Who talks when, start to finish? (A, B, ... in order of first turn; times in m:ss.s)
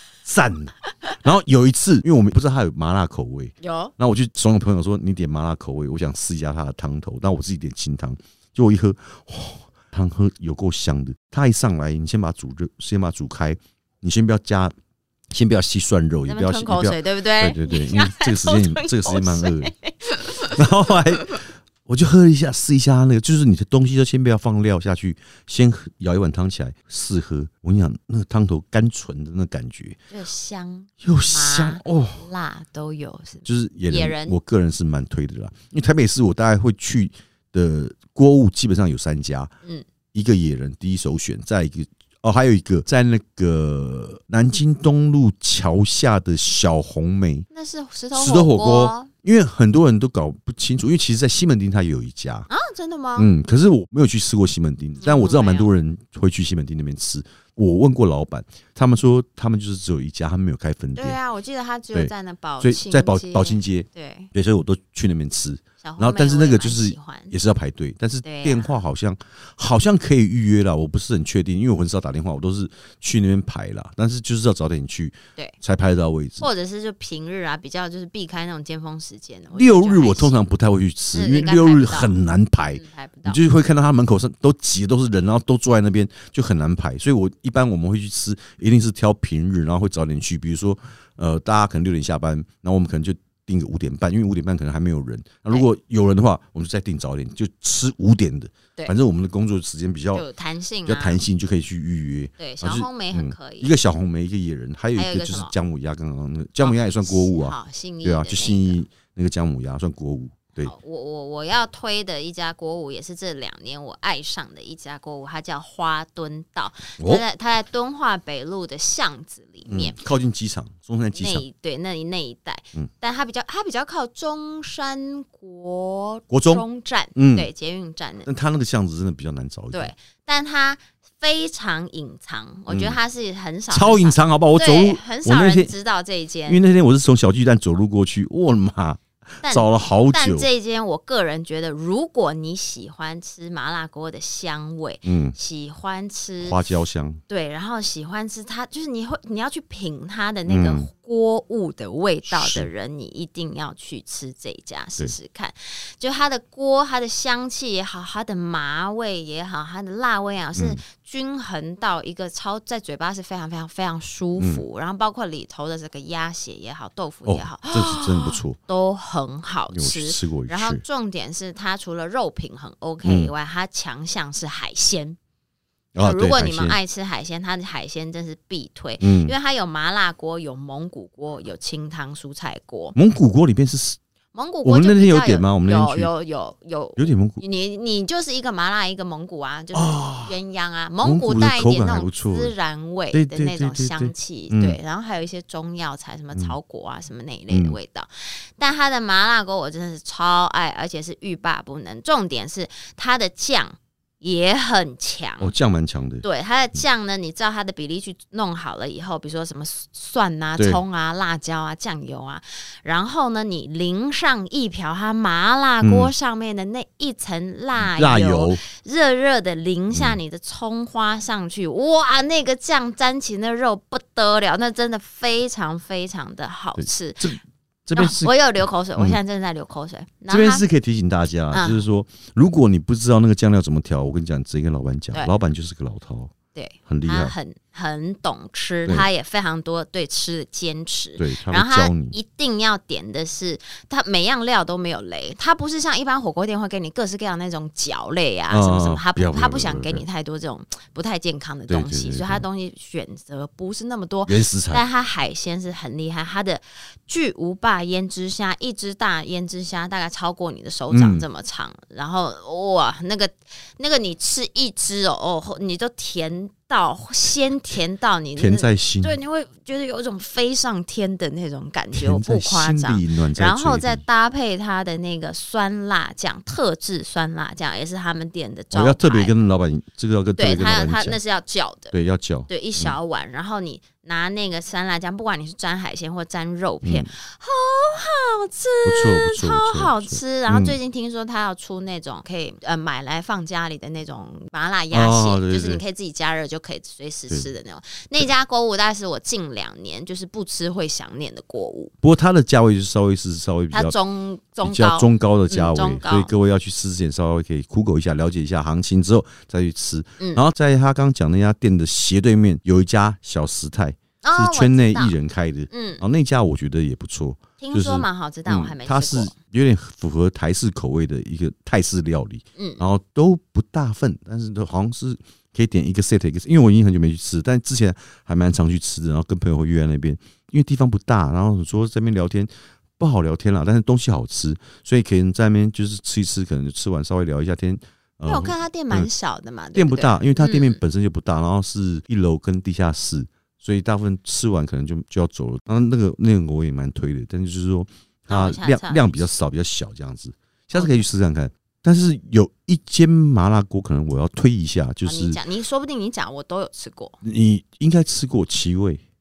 0:00.2-0:14.7 A
0:03.6-0:03.9 B
0:15.3-0:19.7 A
0:16.3-0:20.7 B
0:20.4-0:30.0 A
0:30.1-0:34.4 B
0:31.0-0:32.2 A
0:33.4-0:39.5 A
0:40.1-0:47.4 A
0:47.5-0:49.1 B
0:48.1-0:52.5 A
0:52.5-0:53.3 B
0:53.2-1:01.2 A
0:55.0-0:55.7 B
1:01.0-1:04.3 B
1:01.9-1:16.5 A
1:05.8-1:07.3 B
1:08.2-1:08.8 B
1:16.4-1:20.4 B
1:19.5-1:40.2 A
1:21.1-1:23.4 B
1:40.1-1:41.2 B
1:40.8-1:50.7 A
1:42.4-1:43.7 B
1:45.0-1:45.5 B
1:46.6-1:48.8 B
1:50.6-2:00.0 B
1:57.0-1:57.2 A
1:59.7-2:01.4 A
2:01.2-2:08.3 B
2:06.3-2:06.6 A
2:07.2-2:07.5 A
2:08.2-2:09.9 A
2:09.7-2:16.6 B
2:12.7-2:13.0 A
2:13.7-2:15.7 A
2:16.5-2:20.5 A
2:19.4-2:26.6 B
2:25.0-2:25.3 A
2:26.4-2:27.2 A
2:27.3-2:55.2 B
2:30.5-2:30.9 A
2:32.3-2:32.7 A
2:40.6-2:40.8 A
2:44.4-2:44.6 A
2:47.2-2:48.6 A
2:49.7-2:50.8 A
2:53.0-2:53.3 A
2:55.9-2:56.8 A
2:56.0-3:03.0 B
2:59.0-2:59.3 A
3:02.9-3:04.0 A
3:04.3-3:25.5 B
3:04.6-3:06.1 A
3:07.0-3:07.4 A
3:09.7-3:10.3 A
3:11.0-3:12.5 A
3:13.1-3:14.8 A
3:17.5-3:17.8 A
3:25.4-3:26.2 A
3:26.2-3:47.4 B
3:35.8-3:36.1 A
3:37.8-3:38.6 A
3:39.9-3:40.2 A
3:46.8-3:48.3 A
3:47.9-3:50.6 B
3:50.3-3:56.3 A
3:51.5-3:51.8 B
3:56.5-4:39.3 B
3:56.9-3:57.3 A
4:01.2-4:02.2 A
4:08.5-4:10.0 A
4:11.7-4:12.4 A
4:14.2-4:14.8 A
4:20.9-4:21.3 A
4:28.4-4:29.2 A
4:31.9-4:34.0 A
4:38.7-4:41.2 A
4:40.4-4:41.9 B
4:41.9-4:42.9 A
4:42.5-5:01.9 B
4:46.8-4:47.1 A
4:48.8-4:50.8 A
4:54.9-4:55.8 A
5:02.0-5:03.9 A
5:03.7-5:06.3 B
5:04.6-5:39.1 A
5:14.2-5:15.1 B
5:15.7-5:16.0 B
5:17.6-5:19.3 B
5:22.6-5:22.8 B
5:38.2-5:40.8 B
5:39.7-5:55.4 A
5:48.3-5:49.3 B
5:50.7-5:51.0 B
5:55.0-5:57.2 B
5:57.2-5:59.0 A